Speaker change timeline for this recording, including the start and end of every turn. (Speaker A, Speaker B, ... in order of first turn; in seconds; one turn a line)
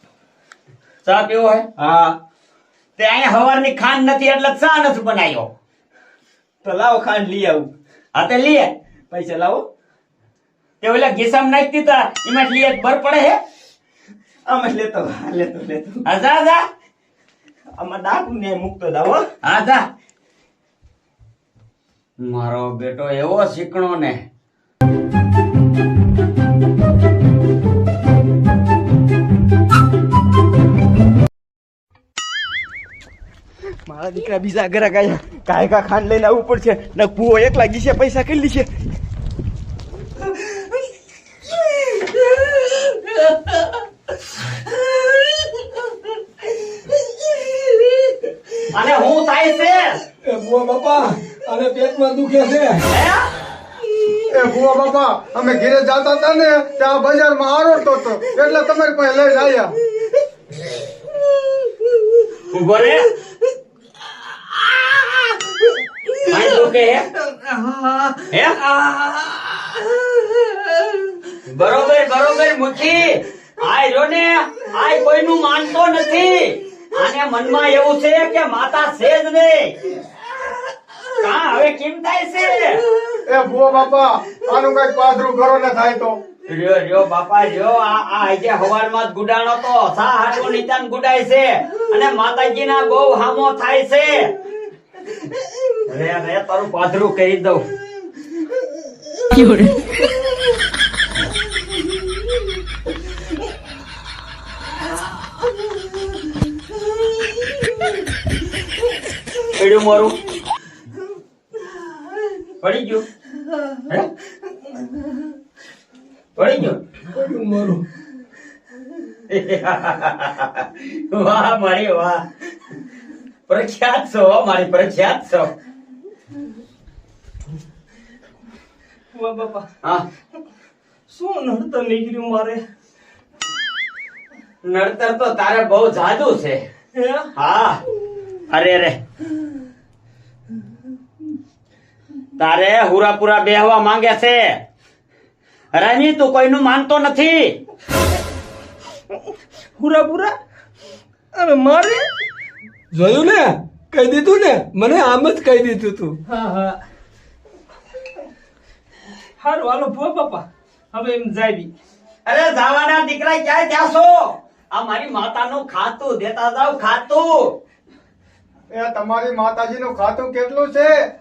Speaker A: 1.1-1.6
Speaker B: 1.8-2.2
Speaker A: 3.0-5.5
Speaker B: 6.6-7.7
Speaker A: 8.2-8.7
Speaker B: 9.1-9.6
Speaker A: 10.8-13.4
Speaker B: 14.5-16.0
Speaker A: 16.1-16.6
Speaker B: 17.8-19.2
Speaker A: 19.4-19.9
Speaker A: 22.2-24.2
Speaker B: 33.9-38.7
Speaker C: 47.4-48.1
Speaker A: 48.7-50.0
Speaker C: 50.2-52.8
Speaker A: 52.9-53.3
Speaker D: 54.3-59.8
Speaker A: 62.5-63.1
Speaker A: 66.2-67.1
Speaker E: 67.6-68.1
Speaker A: 68.2-68.8
Speaker A: 71.3-79.9
Speaker A: 81.2-82.8
Speaker D: 83.3-86.2
Speaker A: 86.5-94.3
Speaker A: 95.9-97.7
Speaker A: 109.5-110.2
Speaker A: 112.6-113.0
Speaker A: 116.4-116.8
Speaker C: 117.1-117.8
Speaker A: 119.3-122.3
Speaker A: 123.5-125.5
Speaker E: 129.1-129.7
Speaker E: 131.1-132.6
Speaker A: 134.6-136.6
Speaker E: 137.0-137.3
Speaker A: 137.3-137.8
Speaker A: 138.5-139.0
Speaker A: 142.4-144.6
Speaker A: 145.7-147.6
Speaker E: 149.8-150.3
Speaker E: 151.3-152.1
Speaker C: 152.9-156.2
Speaker E: 156.3-156.8
Speaker E: 159.4-161.7
Speaker A: 162.3-167.6
Speaker D: 168.7-170.9